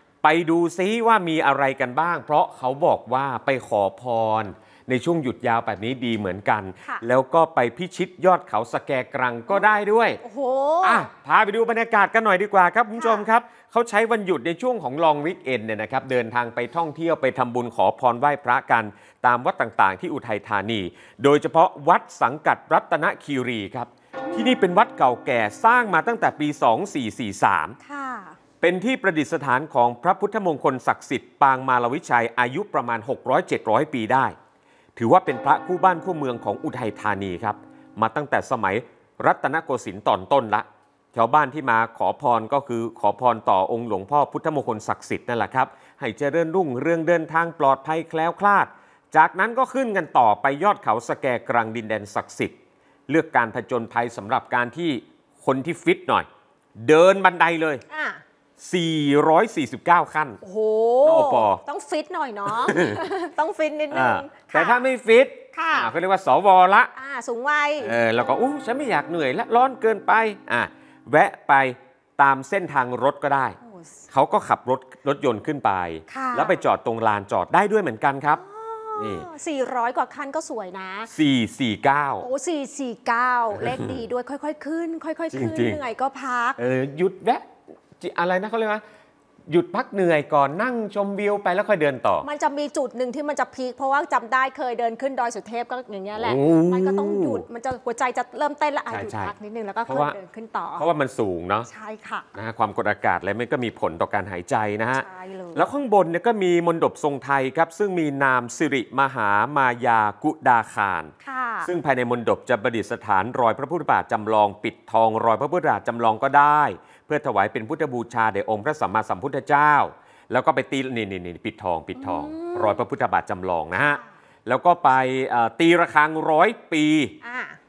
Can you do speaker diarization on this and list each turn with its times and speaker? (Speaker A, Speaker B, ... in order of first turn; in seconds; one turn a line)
Speaker A: 0.2-10.2
Speaker B: 10.2-11.1
Speaker A: 10.8-27.8
Speaker B: 12.9-13.2
Speaker B: 24.2-24.6
Speaker B: 27.8-28.4
Speaker A: 28.6-34.4
Speaker A: 35.0-52.6
Speaker A: 53.1-56.3
Speaker A: 56.8-57.8
Speaker B: 57.9-58.2
Speaker A: 58.6-60.4
Speaker B: 60.4-64.8
Speaker A: 61.0-61.6
Speaker A: 62.6-63.0
Speaker A: 63.9-66.9
Speaker B: 65.5-65.9
Speaker B: 66.9-68.0
Speaker A: 67.8-73.6
Speaker B: 73.7-74.0
Speaker A: 74.1-78.4
Speaker B: 76.1-76.6
Speaker B: 78.4-81.1
Speaker A: 79.0-79.3
Speaker A: 81.1-82.3
Speaker B: 82.2-86.6
Speaker A: 83.6-83.9
Speaker A: 85.3-85.8
Speaker A: 86.6-87.4
Speaker A: 88.0-88.8
Speaker A: 89.5-92.3
Speaker B: 92.2-100.9
Speaker A: 96.2-97.5
Speaker A: 98.9-99.3
Speaker A: 99.9-100.2
Speaker A: 100.8-101.7
Speaker B: 101.7-102.3
Speaker A: 102.3-111.1
Speaker B: 104.9-105.7
Speaker B: 111.2-111.7
Speaker A: 111.7-127.2
Speaker B: 122.0-122.8
Speaker B: 127.2-127.6